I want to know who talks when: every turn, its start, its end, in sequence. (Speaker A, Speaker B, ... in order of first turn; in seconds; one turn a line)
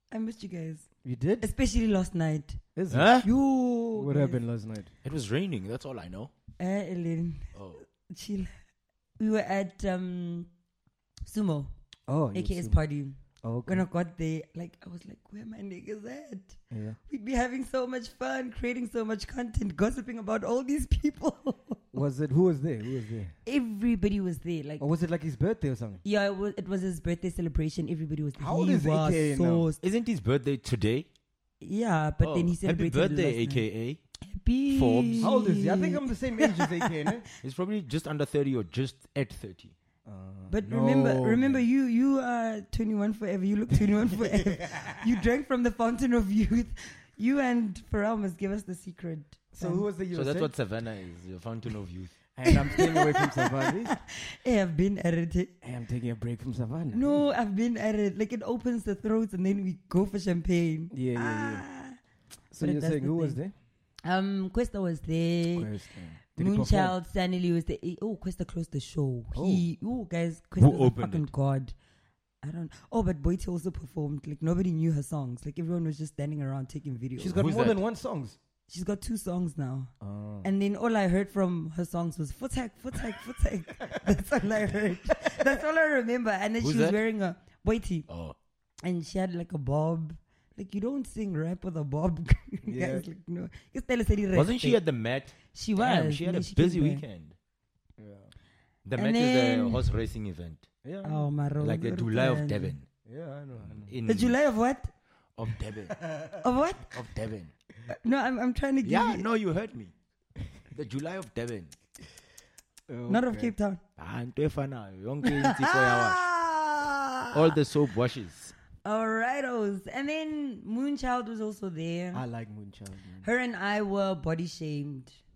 Speaker A: 0.1-0.9
Speaker B: 1.0-1.5
Speaker A: 1.4-2.6
Speaker B: 2.8-3.3
Speaker C: 2.9-3.3
Speaker A: 3.2-4.4
Speaker B: 3.9-4.9
Speaker C: 5.0-6.3
Speaker A: 6.6-8.5
Speaker C: 7.5-7.8
Speaker A: 9.2-10.5
Speaker A: 11.2-11.7
Speaker B: 12.1-12.8
Speaker A: 12.3-21.8
Speaker B: 13.4-13.8
Speaker B: 16.7-17.0
Speaker B: 21.9-23.4
Speaker A: 23.5-24.9
Speaker B: 24.8-26.0
Speaker A: 26.0-29.8
Speaker B: 28.4-29.6
Speaker C: 29.8-31.1
Speaker A: 31.6-33.6
Speaker C: 32.2-34.0
Speaker A: 34.2-36.9
Speaker C: 34.7-35.3
Speaker B: 35.2-37.2
Speaker C: 37.4-39.7
Speaker B: 40.0-41.6
Speaker A: 40.5-49.9
Speaker B: 44.0-45.0
Speaker B: 49.5-50.5
Speaker C: 50.1-52.1
Speaker B: 52.4-54.0
Speaker A: 52.5-55.5
Speaker B: 55.6-57.3
Speaker A: 56.9-62.0
Speaker B: 60.9-61.6
Speaker B: 62.5-63.5
Speaker A: 62.6-63.4
Speaker A: 64.0-65.7
Speaker B: 65.5-67.0
Speaker A: 66.3-71.7
Speaker B: 69.3-69.6
Speaker C: 70.6-71.3
Speaker A: 72.4-77.4
Speaker B: 77.2-78.4
Speaker C: 77.4-77.8
Speaker A: 78.7-79.9
Speaker B: 80.0-80.5
Speaker A: 80.4-88.1
Speaker C: 86.6-87.0
Speaker C: 88.1-88.3
Speaker A: 88.8-94.8
Speaker B: 92.6-93.0
Speaker C: 94.3-97.3
Speaker A: 95.5-97.0
Speaker B: 98.0-98.3
Speaker C: 98.8-100.7
Speaker A: 99.0-99.8
Speaker B: 100.8-101.3
Speaker A: 101.0-102.7
Speaker C: 101.6-102.9
Speaker B: 103.0-104.0
Speaker C: 103.7-104.4
Speaker A: 104.0-104.9
Speaker C: 105.4-106.1
Speaker A: 106.4-106.9
Speaker C: 106.9-107.5
Speaker A: 107.9-109.2
Speaker C: 108.8-109.9
Speaker C: 110.7-111.7
Speaker B: 112.9-113.5
Speaker A: 113.1-113.8
Speaker C: 114.0-116.2
Speaker A: 115.2-117.5
Speaker C: 117.3-118.5
Speaker A: 118.8-122.2
Speaker B: 122.1-123.2
Speaker A: 123.2-125.2